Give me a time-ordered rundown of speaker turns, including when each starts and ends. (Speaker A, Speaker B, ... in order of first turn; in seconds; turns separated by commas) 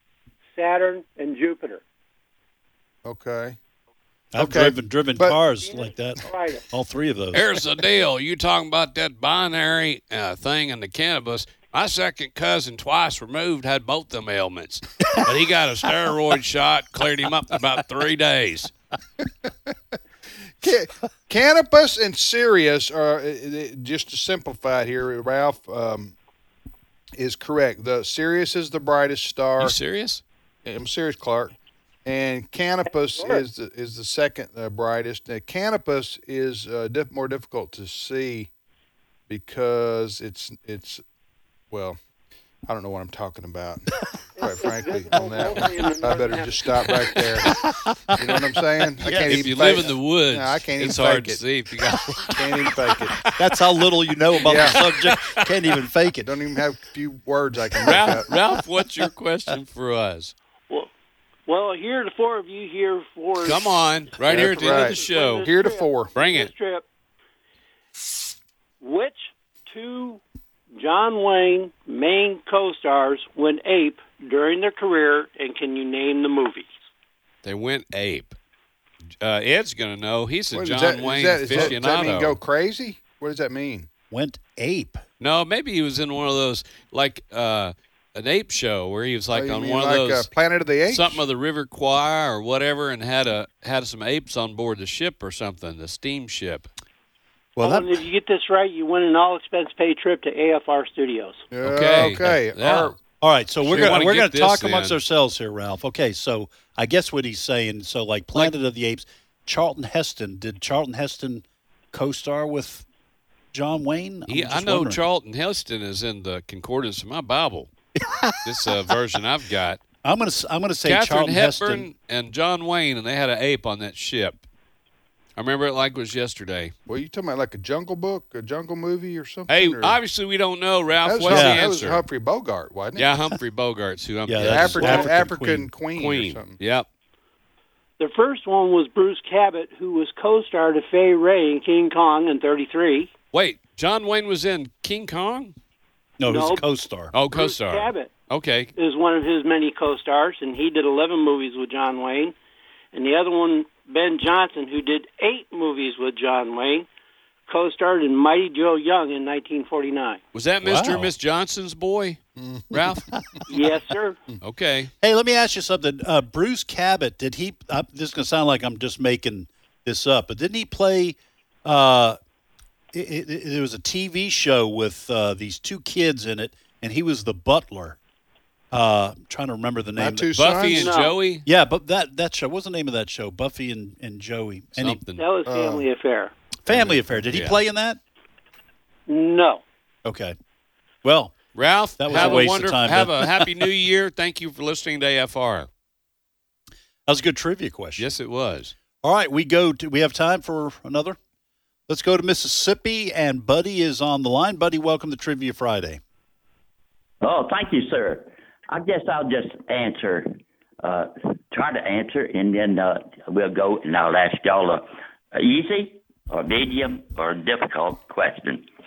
Speaker A: 0.5-1.8, Speaker B: 3.0-3.6, Speaker C: 4.3-7.5, Speaker B: 4.4-5.4, Speaker A: 5.6-6.7, Speaker D: 7.3-18.7, Speaker B: 19.4-19.7, Speaker B: 20.6-26.1, Speaker B: 27.2-29.8, Speaker D: 29.6-30.2, Speaker B: 30.6-38.5, Speaker A: 33.1-33.5, Speaker B: 39.3-41.0, Speaker B: 41.7-42.0, Speaker B: 42.7-47.5, Speaker A: 44.4-46.7, Speaker C: 47.5-48.2, Speaker B: 48.1-51.4, Speaker C: 49.0-49.6, Speaker D: 49.2-53.3, Speaker B: 52.4-53.2, Speaker C: 53.3-56.3, Speaker D: 54.4-55.4, Speaker B: 54.5-54.8, Speaker B: 56.2-58.3, Speaker D: 57.8-60.3, Speaker A: 61.5-66.9, Speaker D: 63.4-65.5, Speaker B: 64.3-66.1, Speaker D: 66.2-66.5, Speaker A: 68.8-70.2, Speaker A: 70.8-76.7, Speaker D: 77.4-78.3, Speaker D: 79.2-82.4, Speaker B: 80.5-83.9, Speaker C: 84.1-85.0, Speaker D: 85.2-90.3, Speaker B: 89.3-91.2, Speaker D: 90.9-96.7, Speaker C: 97.6-98.0, Speaker A: 97.6-101.4, Speaker B: 101.5-103.0, Speaker D: 101.6-103.0, Speaker C: 103.2-112.8, Speaker D: 103.6-105.0, Speaker C: 113.5-115.0, Speaker D: 114.3-117.7, Speaker C: 118.0-118.7, Speaker D: 118.4-119.8, Speaker C: 120.0-121.9, Speaker D: 120.8-124.4, Speaker D: 125.4-126.7, Speaker B: 126.9-130.0, Speaker D: 129.5-132.0, Speaker B: 131.0-133.1, Speaker C: 131.3-131.6, Speaker D: 133.0-135.2, Speaker C: 134.3-135.7, Speaker B: 134.4-136.6, Speaker D: 135.9-136.9, Speaker A: 138.0-143.1, Speaker D: 143.3-145.6, Speaker C: 146.2-147.1, Speaker A: 146.2-146.6, Speaker D: 147.1-148.7, Speaker A: 147.2-148.1, Speaker A: 148.8-152.3, Speaker A: 152.9-156.9, Speaker A: 157.5-160.2, Speaker D: 160.3-162.2, Speaker C: 160.6-161.1, Speaker B: 162.4-162.8, Speaker D: 162.7-163.1, Speaker A: 163.5-164.2, Speaker D: 164.4-164.9, Speaker C: 165.0-172.2, Speaker C: 172.9-178.0, Speaker C: 178.7-180.3, Speaker B: 180.0-180.9, Speaker D: 180.4-181.5, Speaker A: 180.7-181.2, Speaker C: 181.4-185.0, Speaker D: 184.8-185.2, Speaker A: 185.2-186.3, Speaker B: 185.5-185.9, Speaker C: 186.7-188.0, Speaker D: 186.7-187.6, Speaker A: 189.1-189.6, Speaker C: 190.1-190.3, Speaker C: 191.0-191.4, Speaker D: 191.6-195.7, Speaker C: 192.0-193.6, Speaker A: 192.1-192.5, Speaker C: 197.1-198.1, Speaker D: 198.0-198.7, Speaker C: 199.0-201.2, Speaker C: 201.9-206.0, Speaker E: 207.2-218.7